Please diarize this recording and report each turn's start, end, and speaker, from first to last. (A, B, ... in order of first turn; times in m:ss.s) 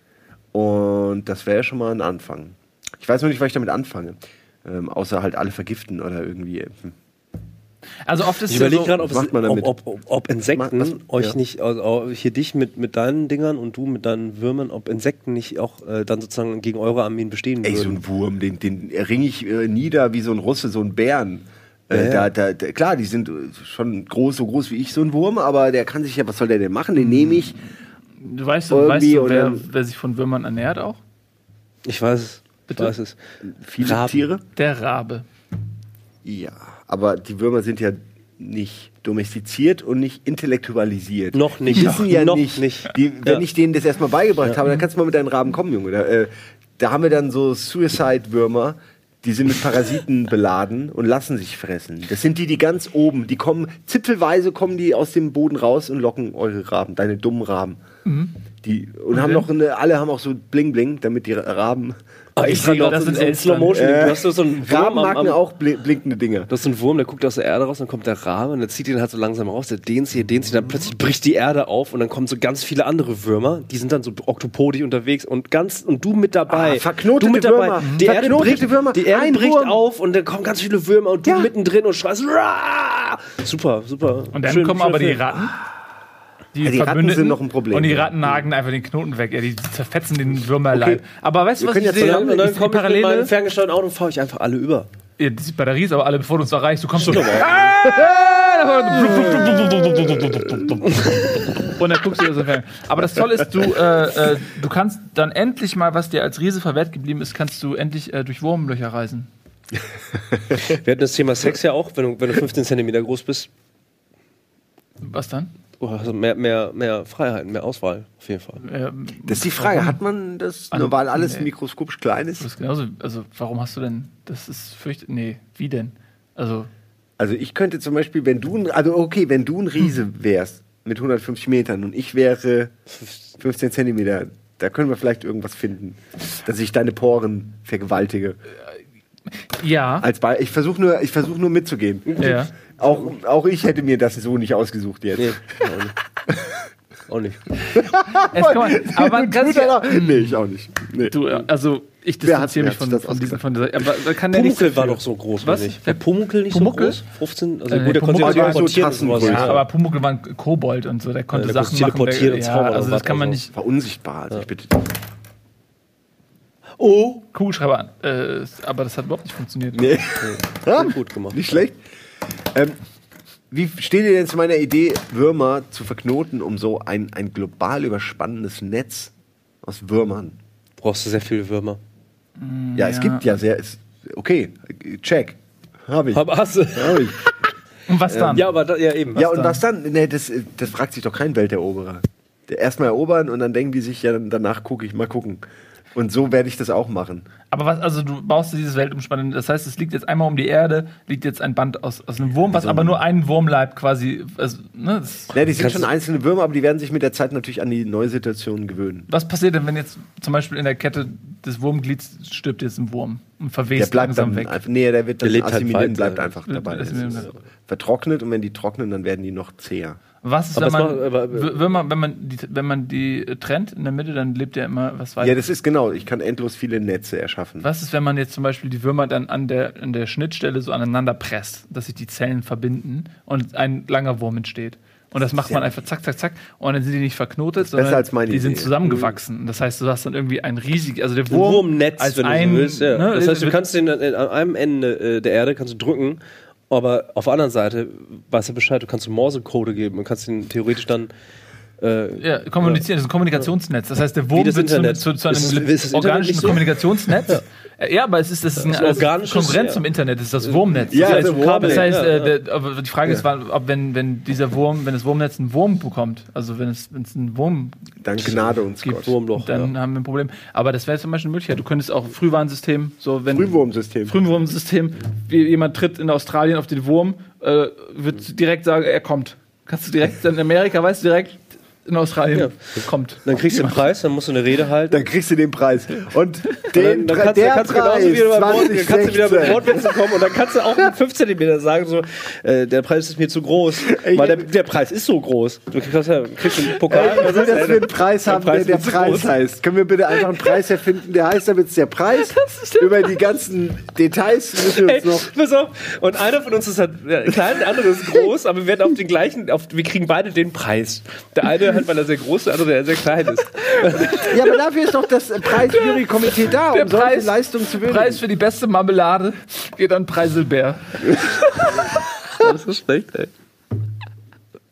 0:00.5-0:07.0 A
0:08.0-0:08.9 B
0:08.5-0:18.0 C
0:08.6-0:09.7 A
0:10.5-0:11.4 A
0:17.6-0:27.6 A
0:21.9-0:22.3 C
0:27.0-0:27.6 B
0:28.2-0:31.0 B
0:28.7-0:29.6 A
0:31.8-0:33.2 C
0:33.4-0:34.4 A
0:33.8-0:34.2 C
0:34.5-0:35.2 B
0:36.2-0:57.8 A
0:41.3-0:43.4 C
0:58.0-0:58.3 B
0:58.6-1:02.0 A
0:59.1-0:59.5 B
1:02.4-1:05.4 C
1:02.4-1:04.1 B
1:03.7-1:06.5 A
1:06.5-1:25.2 C
1:16.5-1:19.8 A
1:21.2-1:21.5 A
1:24.3-1:25.6 B
1:26.5-1:33.3 B
1:26.6-1:28.2 A
1:30.7-1:31.0 A
1:31.6-1:32.3 A
1:32.0-1:34.9 C
1:35.2-1:49.3 B
1:37.0-1:37.7 C
1:39.1-1:39.9 C
1:40.6-1:41.6 C
1:50.3-1:50.6 A
1:50.7-1:53.5 C
1:55.0-1:55.5 B
1:55.8-1:58.6 C
1:58.6-2:00.0 B
1:59.2-2:02.5 A
2:00.7-2:01.5 B
2:02.4-2:06.7 B
2:07.2-2:12.7 A
2:13.4-2:18.4 A
2:19.4-2:20.1 B
2:20.0-2:25.6 A
2:22.1-2:23.1 C
2:22.2-2:22.5 B
2:25.2-2:25.9 C
2:26.3-2:26.6 A
2:27.1-2:27.4 C
2:27.7-2:31.2 A
2:28.1-2:30.4 B
2:31.1-2:37.0 B
2:32.2-2:33.4 A
2:34.3-2:39.6 C
2:37.7-2:43.5 B
2:38.2-2:39.6 A
2:41.3-2:43.4 C
2:43.5-2:45.0 A
2:46.8-2:47.2 C
2:47.3-2:50.0 B
2:49.7-2:51.8 A
2:50.2-2:51.6 C
2:52.5-2:52.8 A
2:53.5-3:00.4 A
3:00.8-3:01.8 C
3:02.4-3:03.4 B
3:02.8-3:07.2 A
3:06.1-3:07.3 C
3:07.9-3:08.4 B
3:08.1-3:08.4 A
3:08.3-3:09.3 C
3:09.1-3:15.4 A
3:09.2-3:09.6 B
3:15.9-3:17.3 A
3:17.5-3:25.3 B
3:22.5-3:23.0 A
3:25.3-3:29.1 A
3:25.5-3:25.9 C
3:29.1-3:34.6 B
3:33.7-3:40.0 A
3:35.2-3:36.3 C
3:36.5-3:37.3 B
3:40.2-3:45.4 B
3:40.5-3:41.6 C
3:45.2-3:47.7 A
3:47.6-4:03.6 B
3:55.3-3:55.8 A
3:57.6-3:58.8 A
3:58.8-3:59.1 C
4:01.3-4:11.1 C
4:11.8-4:12.8 C
4:12.2-4:27.9 B
4:14.3-4:17.4 C
4:18.6-4:19.8 C
4:20.4-4:22.3 C
4:20.9-4:22.0 A
4:28.0-4:29.1 A
4:28.8-4:33.5 B
4:28.9-4:29.7 C
4:33.3-4:34.2 A
4:34.0-4:43.8 B
4:42.3-4:45.0 C
4:44.9-4:50.2 A
4:46.7-4:59.4 C
4:53.8-4:54.5 A
4:56.8-5:05.3 A
4:56.9-4:57.6 B
5:02.2-5:03.2 B
5:04.6-5:14.2 C
5:13.6-5:14.6 B
5:14.3-5:18.2 A
5:15.5-5:22.0 B
5:22.4-5:23.3 C